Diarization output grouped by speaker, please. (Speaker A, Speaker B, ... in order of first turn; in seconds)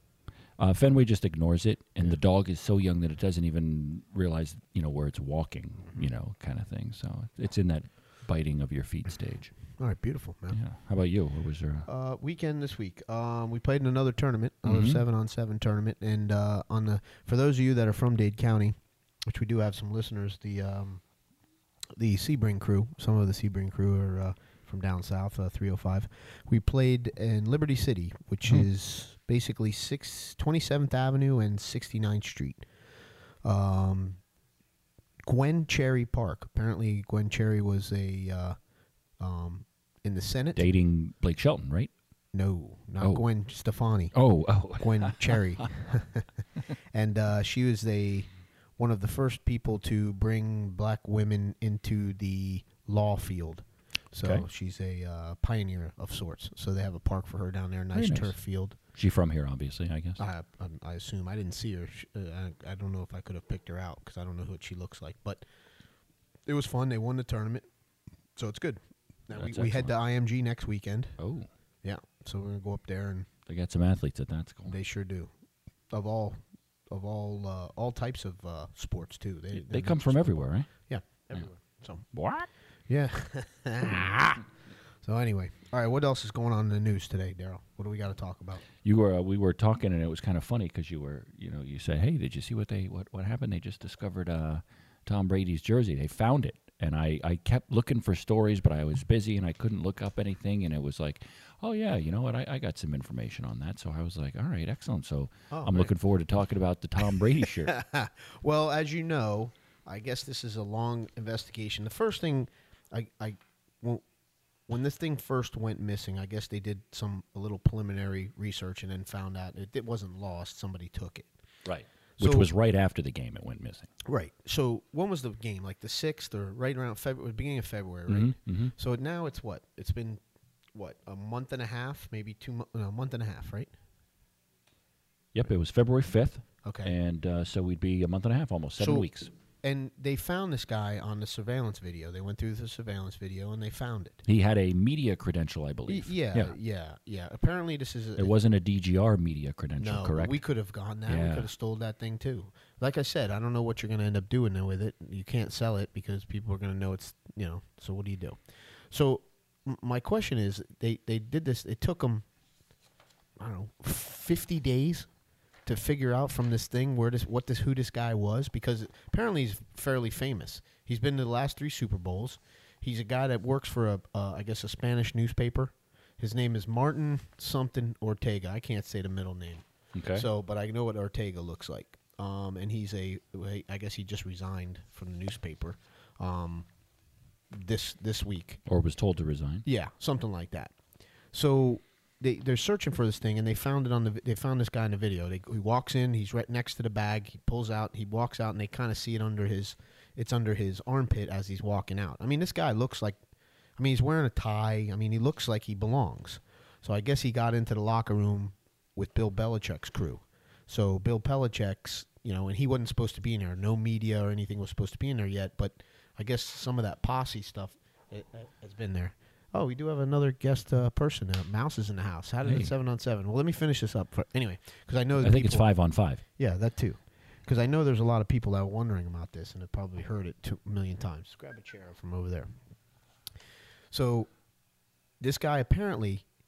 Speaker A: 0.6-9.5, 10.5-11.9, 14.6-15.0, 40.5-41.9, 43.0-43.2, 44.1-45.7, 54.2-54.5, 57.9-58.3, 58.9-60.2, 69.3-69.9, 71.2-71.5, 73.5-74.7, 79.5-80.7, 82.1-82.5, 88.8-107.7, 121.6-123.9, 128.1-128.7, 135.3-139.3, 144.2-146.5, 148.2-150.4, 151.1-151.5, 179.9-180.2, 188.7-189.6, 222.4-222.7, 225.2-226.2
Speaker B: 9.8-10.6, 11.8-21.0, 21.9-32.6, 33.4-34.2, 35.2-38.5, 39.2-40.7, 42.3-44.1, 44.7-46.2, 46.9-58.8, 60.2-65.4, 66.5-67.7, 68.3-71.2, 71.8-73.3, 74.7-75.3, 75.9-82.0, 82.9-84.5, 85.0-88.6, 105.5-105.9, 107.0-114.0, 114.7-121.3, 122.2-122.5, 124.0-130.2, 130.7-133.7, 136.6-136.9, 138.8-144.2, 145.9-148.3, 149.8-162.2, 163.4-165.1, 165.7-186.7, 187.5-188.6, 189.6-190.8, 191.3-203.2, 203.8-225.7, 226.3-232.5, 233.9-234.3, 235.2-236.2